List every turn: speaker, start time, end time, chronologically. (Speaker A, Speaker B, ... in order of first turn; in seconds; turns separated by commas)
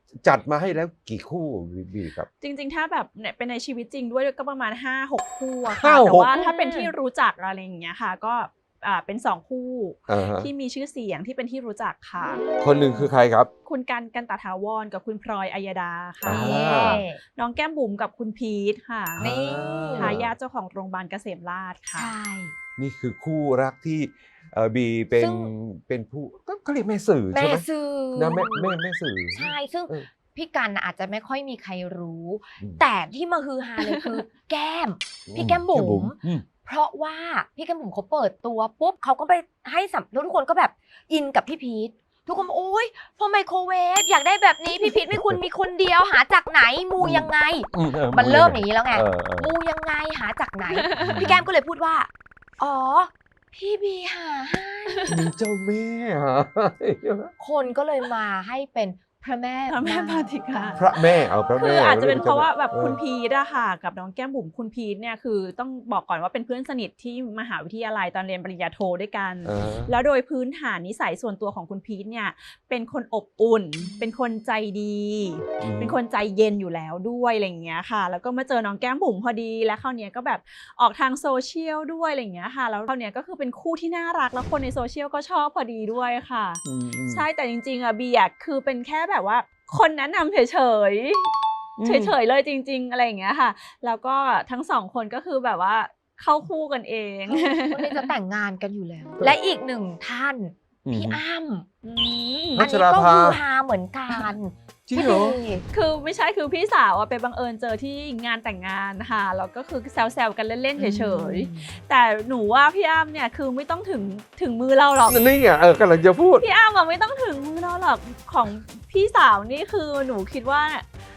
Speaker A: 0.2-2.3, Speaker B: 2.4-12.4, Speaker A: 5.7-6.3, Speaker C: 6.3-6.9, Speaker A: 10.1-10.5, Speaker A: 12.6-13.5, Speaker B: 13.6-19.3, Speaker A: 16.2-17.0, Speaker C: 16.3-17.2, Speaker A: 19.2-20.3, Speaker C: 19.2-20.2, Speaker B: 20.0-22.1, Speaker C: 21.9-22.5, Speaker A: 22.8-30.1, Speaker C: 25.1-25.5, Speaker C: 27.3-28.8, Speaker C: 29.3-55.1, Speaker A: 32.6-32.8, Speaker B: 33.8-34.1, Speaker A: 35.3-36.5, Speaker A: 44.8-45.4, Speaker A: 47.0-49.5, Speaker B: 50.7-51.2, Speaker A: 51.0-51.5, Speaker A: 55.1-57.3, Speaker C: 57.4-60.8, Speaker B: 59.7-61.0, Speaker A: 60.8-63.0, Speaker B: 61.5-91.3, Speaker A: 69.4-70.0, Speaker A: 75.6-76.0, Speaker A: 86.7-87.3, Speaker A: 91.8-92.2, Speaker B: 91.8-98.1, Speaker C: 97.2-101.7, Speaker A: 100.8-101.2, Speaker B: 101.8-102.6, Speaker A: 102.5-103.4, Speaker C: 102.6-105.6, Speaker A: 104.9-105.4, Speaker B: 105.7-115.2, Speaker C: 110.8-111.7, Speaker A: 115.1-116.5, Speaker B: 116.4-120.8